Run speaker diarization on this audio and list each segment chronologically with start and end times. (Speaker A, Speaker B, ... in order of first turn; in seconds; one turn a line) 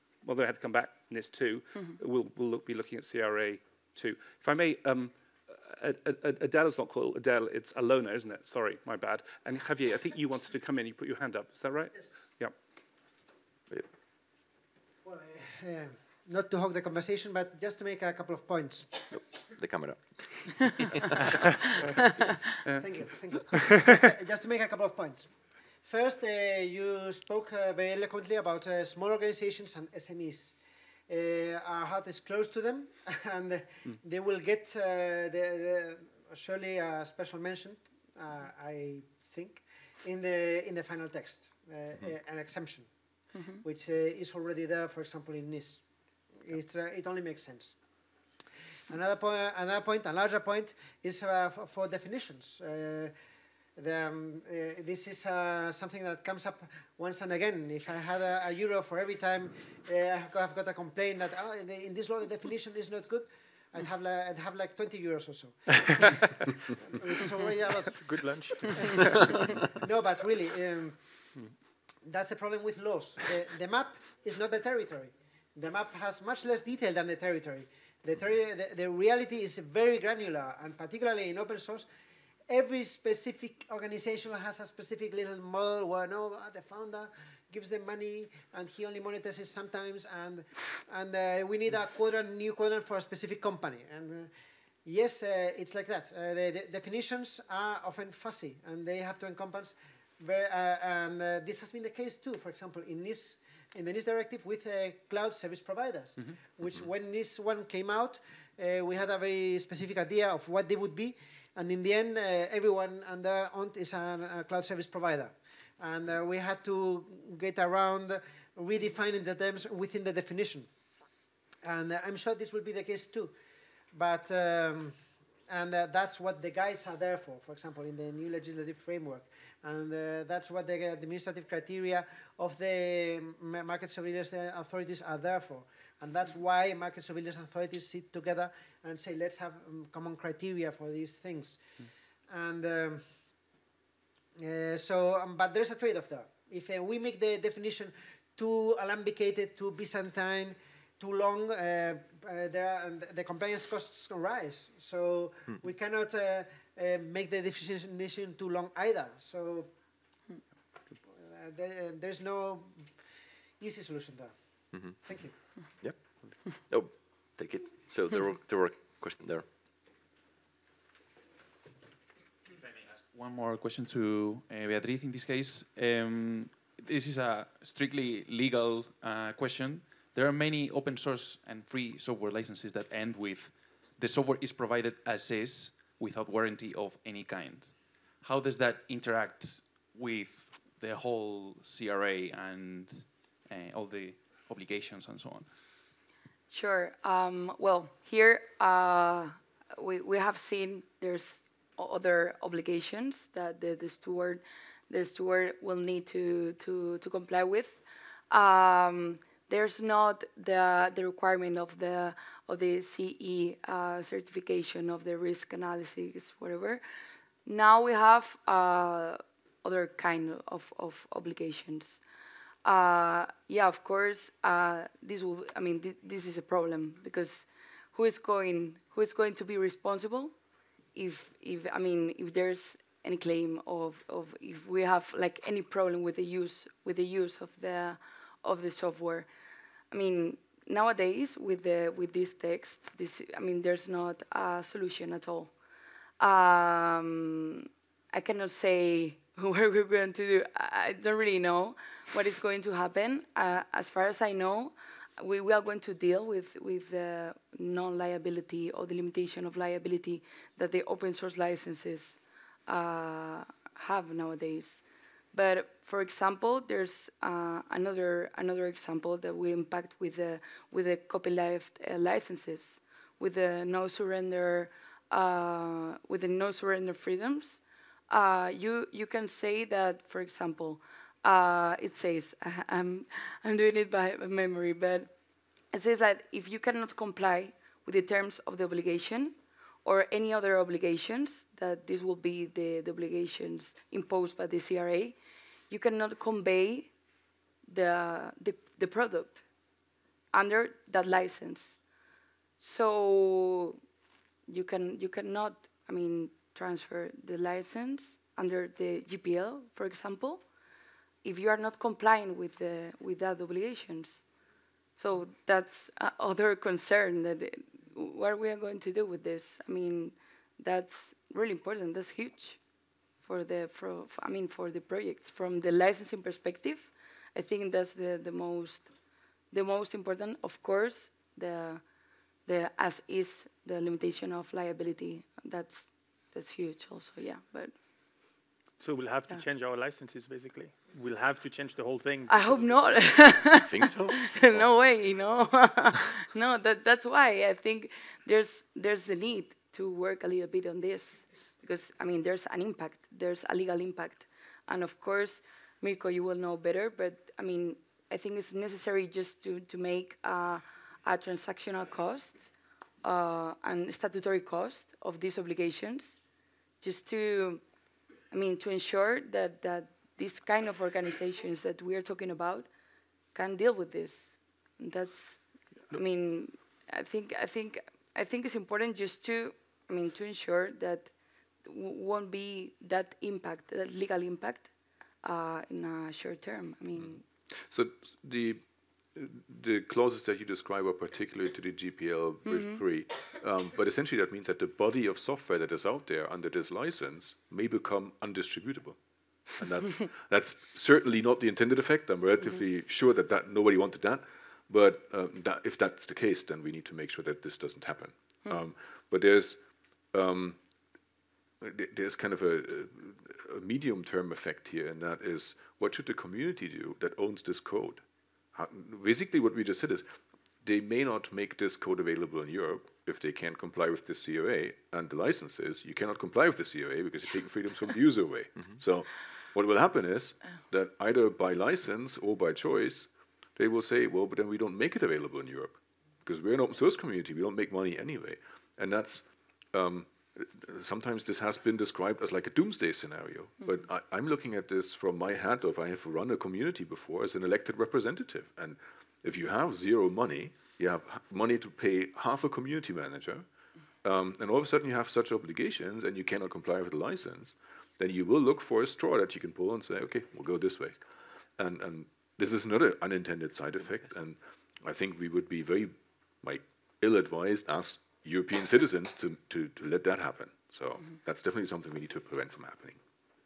Speaker A: 0.2-12.6
Speaker B: 15.0-19.0
Speaker C: 19.1-21.1
Speaker B: 22.8-30.5
Speaker A: 23.5-23.8
Speaker B: 31.1-42.9
Speaker D: 43.3-43.6
Speaker B: 43.6-45.8
Speaker B: 46.4-47.8
Speaker B: 48.9-53.2
Speaker B: 53.8-66.1
Speaker B: 66.8-71.3
Speaker E: 67.9-69.2
Speaker B: 72.0-81.9
Speaker B: 82.5-94.3
Speaker B: 94.8-120.7
Speaker B: 121.6-123.3
Speaker B: 123.9-143.2
Speaker B: 144.4-159.7
Speaker B: 161.1-165.4
Speaker C: 164.7-169.4
Speaker F: 172.5-195.6
Speaker D: 196.5-216.8
Speaker D: 217.4-222.0
Speaker D: 222.7-230.3
Speaker D: 230.9-239.3
Speaker D: 239.9-245.5
Speaker D: 246.2-285.1
Speaker D: 285.7-295.2
Speaker D: 295.7-296.9
Speaker D: 297.7-299.4
Speaker D: 300.3-301.8
Speaker D: 302.6-303.8
Speaker D: 304.5-310.4
Speaker D: 311.2-314.3
Speaker D: 315.0-322.6
Speaker D: 323.2-328.9
Speaker D: 329.5-331.8
Speaker D: 332.5-337.8
Speaker E: 338.8-343.4
Speaker D: 342.3-362.5
Speaker C: 343.6-344.7
Speaker D: 363.0-366.2
Speaker D: 366.8-367.6
Speaker D: 368.3-372.7
Speaker D: 373.3-381.1
Speaker D: 381.6-384.7
Speaker D: 385.2-387.2
Speaker G: 386.9-388.6
Speaker G: 389.1-410.6
Speaker D: 392.5-392.8
Speaker G: 411.6-453.5
Speaker G: 454.0-473.0